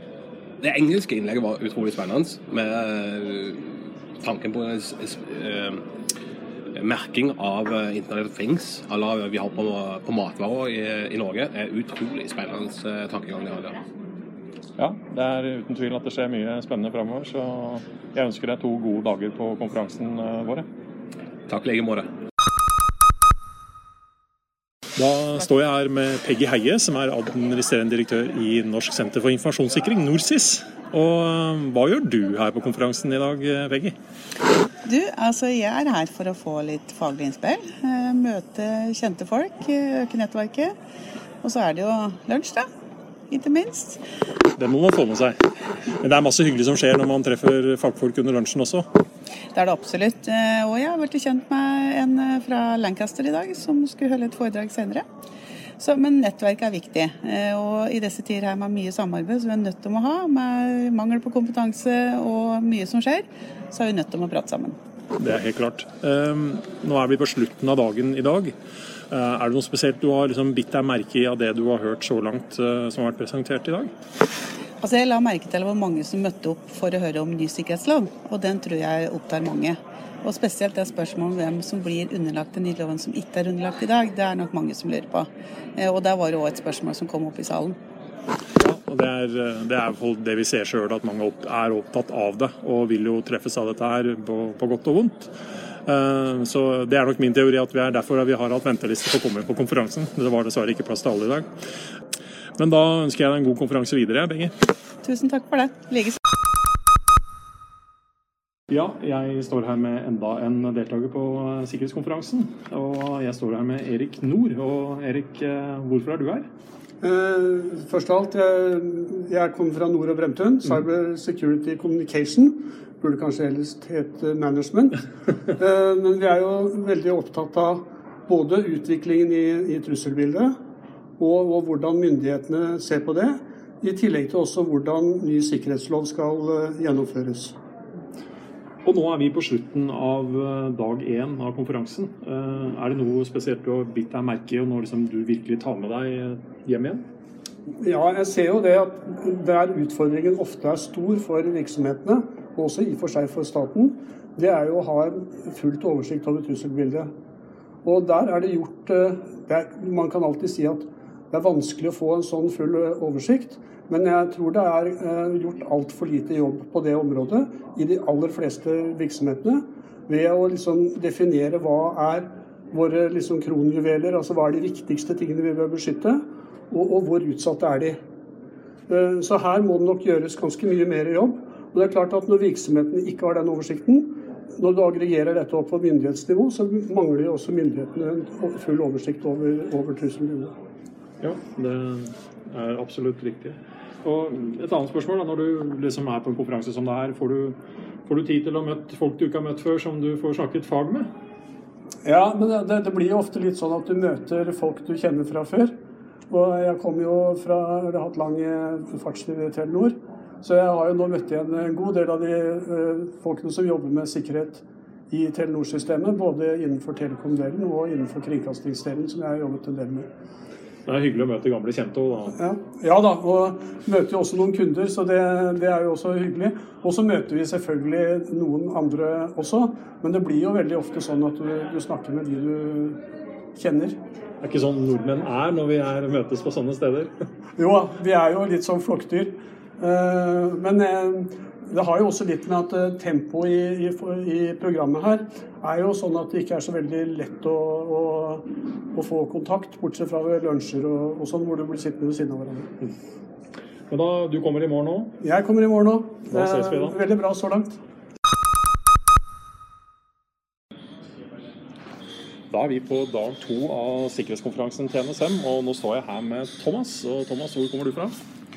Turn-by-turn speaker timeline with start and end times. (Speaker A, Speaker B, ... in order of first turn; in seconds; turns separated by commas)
Speaker A: 0.6-3.6, Speaker A: 4.2-5.8, Speaker A: 6.8-13.8, Speaker B: 14.8-20.6, Speaker A: 21.5-22.1, Speaker B: 25.0-33.9, Speaker C: 34.9-40.7, Speaker C: 41.4-42.6, Speaker C: 43.3-44.0, Speaker B: 44.6-45.4, Speaker B: 46.0-48.9, Speaker C: 49.5-55.0, Speaker C: 55.8-64.8, Speaker B: 65.2-68.5, Speaker B: 69.1-73.9, Speaker C: 74.8-87.8, Speaker B: 88.6-95.3, Speaker B: 95.9-101.5, Speaker B: 102.6-104.5, Speaker C: 105.0-106.2, Speaker B: 108.7-116.5, Speaker D: 117.0-125.0, Speaker D: 125.6-130.5, Speaker D: 131.2-137.6, Speaker B: 138.8-147.0, Speaker D: 147.8-157.1, Speaker D: 157.8-178.0, Speaker D: 178.9-190.5, Speaker B: 191.2-197.6, Speaker B: 198.1-201.1, Speaker D: 202.0-205.7, Speaker D: 206.3-220.1, Speaker B: 220.9-222.4, Speaker D: 222.3-233.0, Speaker D: 233.6-234.0, Speaker B: 234.4-237.1, Speaker D: 237.6-252.7, Speaker B: 253.9-255.1, Speaker D: 255.2-257.8, Speaker B: 256.3-257.0, Speaker B: 262.5-268.1